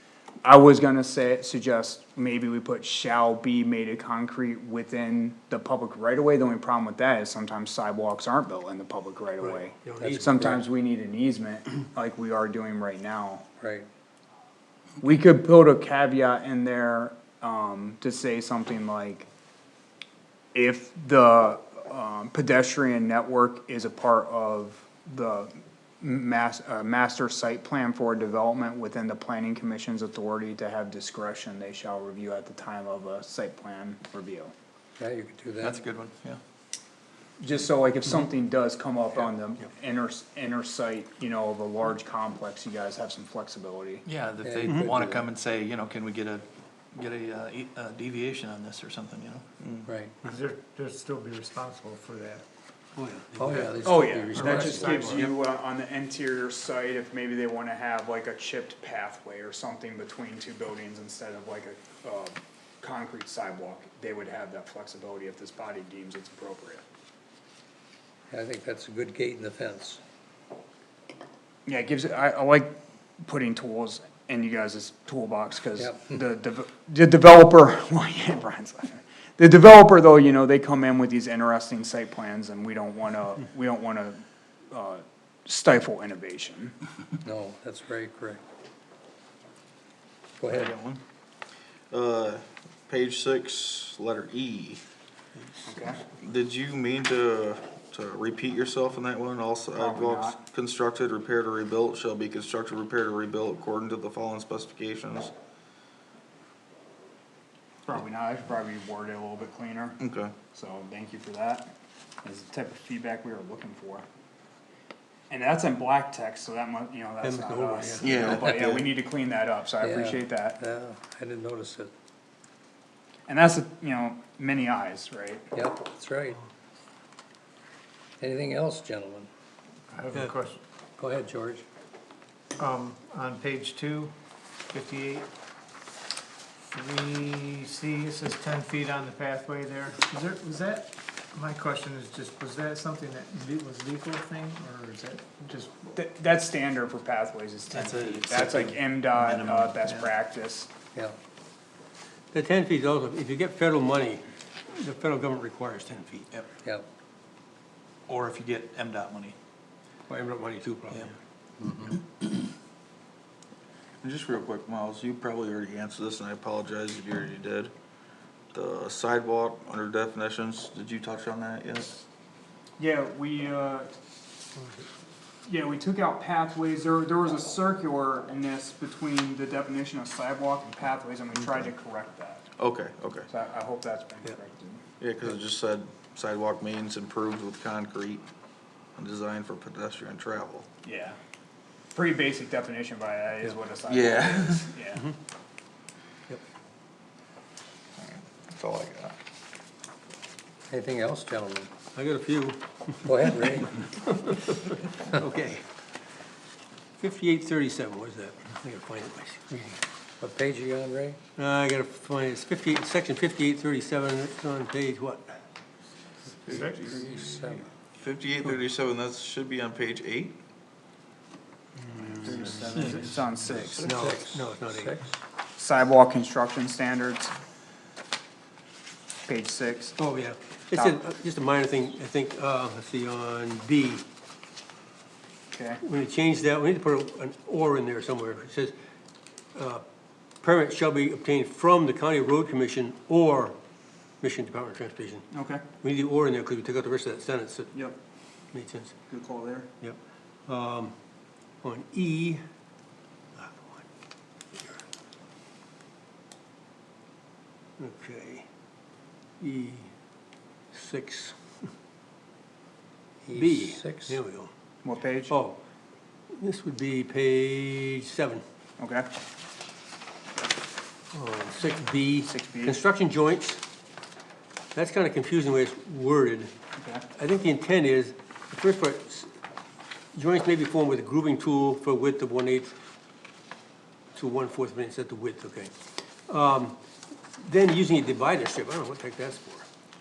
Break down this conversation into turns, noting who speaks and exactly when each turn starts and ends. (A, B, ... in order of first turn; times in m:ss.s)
0:00.4-0:13.4 A
0:09.4-0:10.5 B
0:10.0-0:10.6 C
0:13.6-0:13.9 C
0:15.0-0:19.3 A
0:20.5-0:34.5 A
0:35.0-0:35.8 C
0:35.6-0:36.4 D
0:37.4-0:44.0 A
0:44.0-0:49.6 D
0:44.4-0:45.2 C
0:44.6-0:44.9 B
0:49.6-0:49.8 E
0:49.8-0:50.1 C
0:50.2-0:52.4 F
0:53.0-0:53.8 B
0:53.4-0:55.2 C
0:53.8-1:06.8 A
0:54.3-0:55.3 B
0:54.4-0:55.3 F
1:08.3-1:10.0 C
1:11.6-1:26.8 A
1:15.8-1:16.2 C
1:27.2-1:28.4 C
1:30.4-1:30.7 C
1:30.5-1:31.0 A
1:31.9-1:34.8 E
1:35.6-1:36.0 A
1:36.2-1:45.3 E
1:39.7-1:40.4 A
1:47.8-1:50.0 A
1:50.0-1:50.3 E
1:50.5-1:51.7 A
1:52.2-1:54.0 A
1:55.3-2:00.6 A
1:57.2-1:58.5 B
1:58.0-1:58.9 E
1:58.4-1:58.7 C
1:59.8-2:01.9 C
2:03.3-2:05.5 A
2:05.5-2:06.4 C
2:08.2-2:09.3 C
2:09.9-2:10.6 F
2:11.0-2:11.6 C
2:12.6-2:14.1 F
2:14.7-2:15.3 F
2:16.7-2:25.9 F
2:25.9-2:30.7 A
2:27.7-2:29.8 D
2:32.3-2:36.3 B
2:38.1-2:39.3 D
2:40.1-2:41.1 B
2:41.6-2:42.0 C
2:44.0-2:47.7 E
2:48.5-2:52.0 E
2:52.8-2:53.9 A
2:54.6-2:54.8 B
2:55.4-3:02.5 A
3:02.6-3:03.3 E
3:03.3-3:04.8 A
3:05.0-3:08.3 E
3:09.0-3:10.7 E
3:10.8-3:11.2 A
3:11.9-3:15.0 A
3:13.9-3:14.7 E
3:18.0-3:19.2 E
3:20.7-3:21.7 C
3:21.9-3:25.6 B
3:23.0-3:23.8 C
3:27.0-3:29.8 B
3:30.2-3:31.2 C
3:31.4-3:35.4 B
3:36.5-3:37.0 F
3:36.5-3:37.2 E
3:36.8-3:37.6 C
3:38.0-3:40.4 E
3:41.8-3:43.1 B
3:42.2-3:43.8 E
3:42.5-3:43.9 A
3:43.8-3:44.9 B
3:43.8-3:45.2 C
3:45.6-3:47.3 A
3:49.3-3:50.0 A
3:50.0-3:54.0 B
3:50.7-3:51.0 A
3:55.5-3:55.8 A
3:55.8-3:58.7 B
3:59.5-3:59.8 B
4:00.4-4:03.6 B
4:04.2-4:05.3 B
4:05.3-4:05.6 A
4:05.8-4:07.7 B
4:08.5-4:08.9 B
4:09.1-4:09.7 A
4:09.8-4:10.9 B
4:11.6-4:12.4 B
4:13.3-4:13.8 B
4:14.5-4:14.8 B
4:17.8-4:18.4 B
4:19.4-4:19.9 B
4:20.7-4:21.7 B
4:23.3-4:24.2 C
4:23.3-4:24.5 B
4:24.8-4:25.4 A
4:25.3-4:25.6 B
4:26.3-4:28.4 B
4:28.8-4:29.1 A
4:31.1-4:33.6 B
4:32.2-4:32.8 A
4:34.7-4:36.5 B
4:36.8-4:37.0 A
4:37.1-4:39.3 B
4:40.1-4:42.8 B
4:44.1-4:45.7 B
4:46.3-4:46.8 B
4:47.4-4:49.6 B